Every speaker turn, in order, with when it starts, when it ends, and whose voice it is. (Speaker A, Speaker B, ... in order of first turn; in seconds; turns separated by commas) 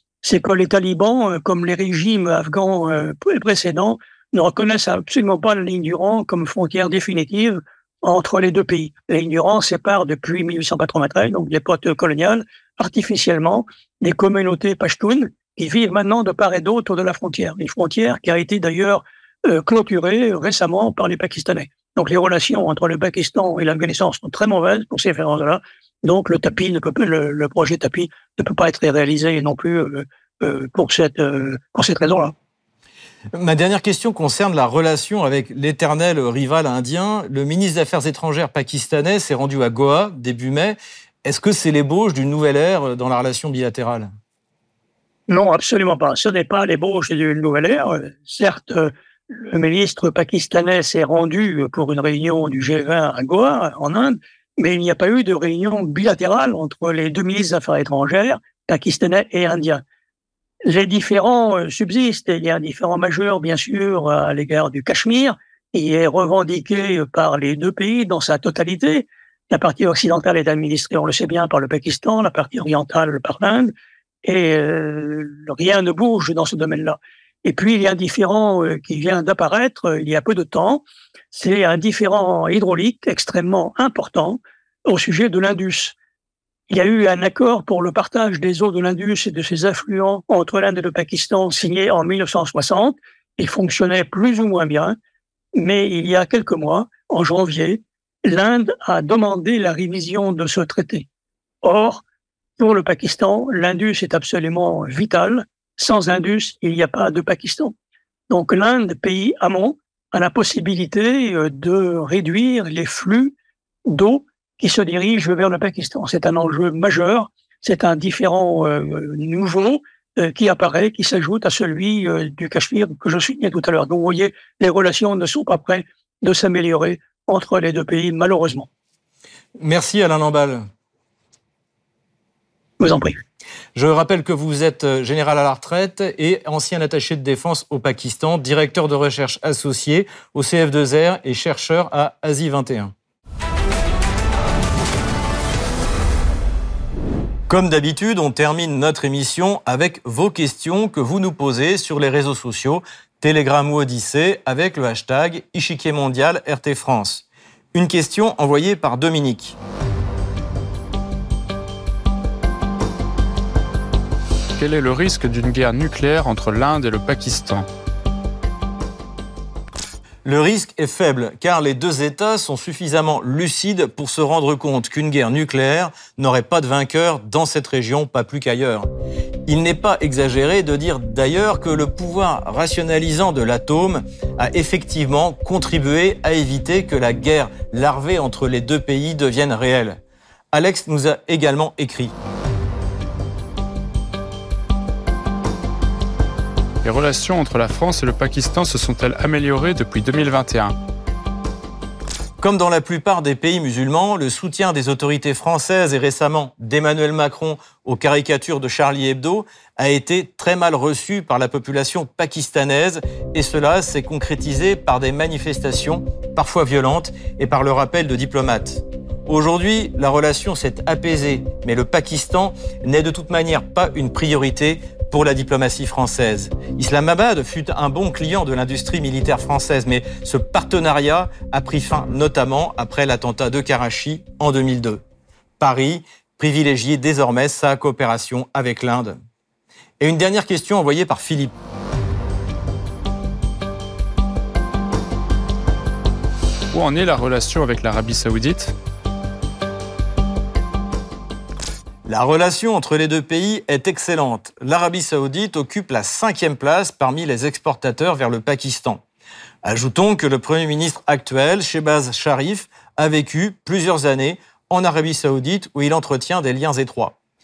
Speaker A: 0.2-32.3, Speaker B: 33.3-44.1, Speaker A: 45.3-59.8, Speaker A: 60.6-73.7, Speaker A: 74.2-85.9, Speaker A: 86.7-95.0, Speaker A: 95.5-101.0, Speaker A: 101.6-102.0, Speaker A: 102.6-107.7, Speaker A: 108.3-113.3, Speaker A: 113.9-128.7, Speaker B: 129.6-130.6, Speaker A: 132.8-133.2, Speaker B: 133.7-142.9, Speaker B: 147.5-159.6, Speaker C: 164.6-167.7, Speaker B: 170.2-178.9, Speaker B: 179.4-190.0, Speaker B: 190.5-192.1, Speaker C: 196.8-200.8, Speaker B: 202.4-235.0, Speaker B: 235.6-239.2, Speaker B: 240.0-241.5, Speaker C: 246.7-248.7, Speaker B: 252.1-259.0, Speaker B: 259.6-267.1